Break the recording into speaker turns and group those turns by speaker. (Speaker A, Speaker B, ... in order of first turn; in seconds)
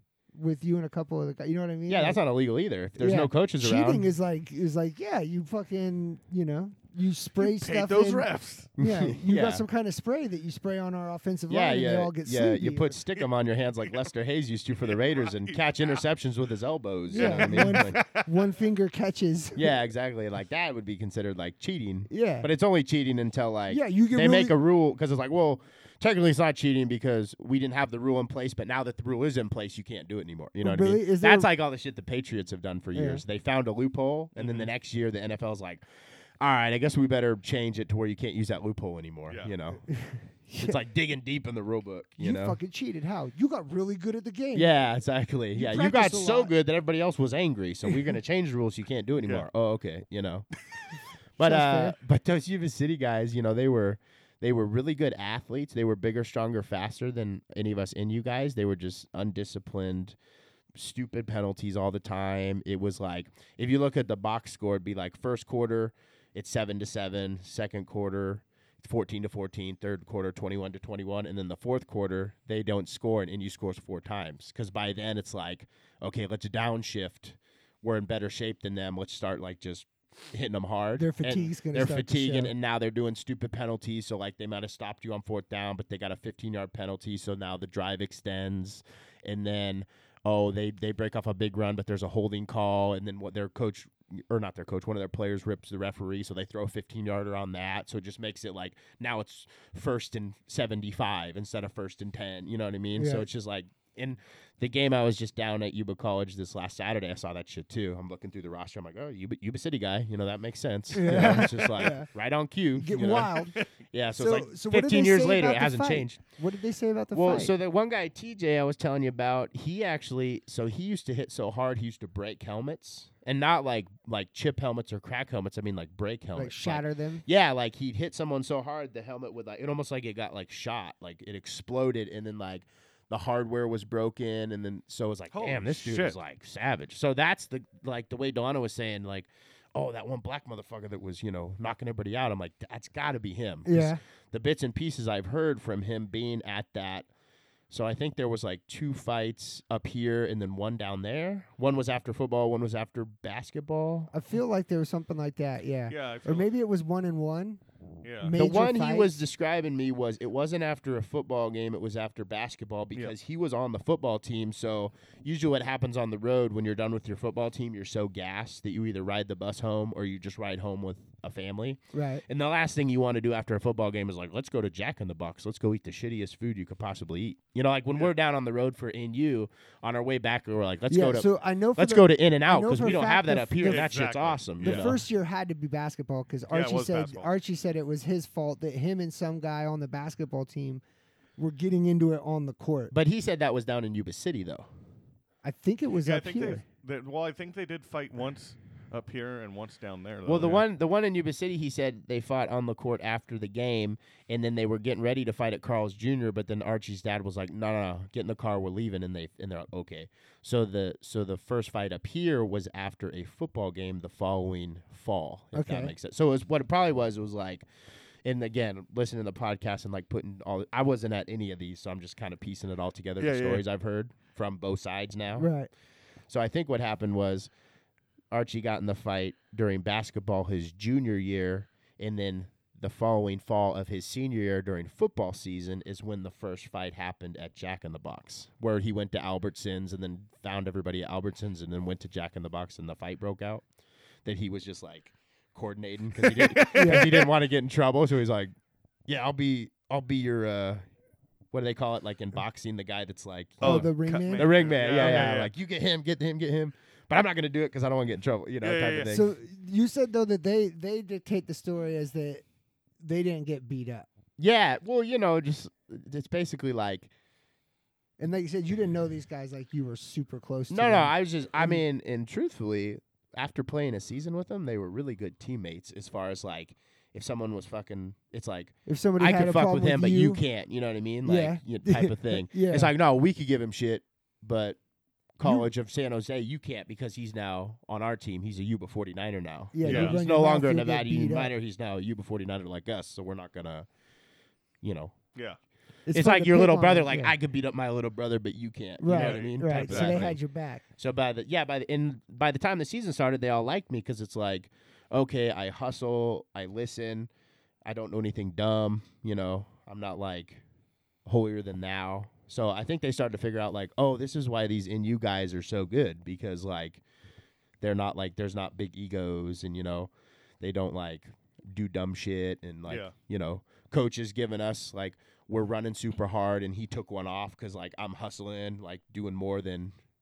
Speaker A: 0.3-2.2, 3.0-13.0, 17.1-19.7, 22.1-22.5, 23.7-24.6, 30.6-31.5, 32.9-33.2, 39.8-40.8, 42.2-44.7, 45.5-46.5, 51.4-52.0, 81.0-82.5, 103.0-103.3, 110.9-112.1, 112.8-113.5, 114.2-117.5, 126.3-127.2, 143.6-144.0, 154.1-157.6, 158.2-159.2, 171.9-172.2, 180.9-183.9, 184.6-190.8, 191.4-192.9, 195.4-196.6, 215.5-215.9, 225.4-225.7, 246.7-247.1, 253.6-255.3, 259.1-262.4, 263.0-264.1, 268.2-271.8, 278.9-280.4, 281.2-282.9, 285.4-285.7, 289.7-291.5, 296.1-297.3, 299.0-300.8
Speaker B: 1.9-4.1, 8.8-9.6, 11.5-18.0, 19.6-35.8, 36.4-39.8, 40.6-42.6, 44.5-50.5, 51.4-60.2, 60.7-116.2, 117.1-147.1, 147.7-154.1, 158.3-185.0, 192.9-194.7, 200.2-217.7, 218.2-225.5, 226.3-227.5, 228.3-243.6, 244.2-248.5, 249.1-250.8, 251.5-259.3, 264.4-267.1, 270.7-284.8, 285.4-293.9, 294.8-295.1, 296.1-300.4, 301.0-307.3, 307.8-310.6, 311.2-317.0, 317.8-329.9
Speaker C: 7.4-8.7, 14.8-16.0, 17.1-18.5, 34.4-34.7, 135.3-136.2, 155.9-156.5, 158.0-158.3, 183.6-184.9, 186.5-187.3, 196.0-200.6, 223.2-223.6, 246.2-247.3, 253.6-255.5, 258.6-259.1, 289.8-290.2, 299.1-300.2, 322.9-323.1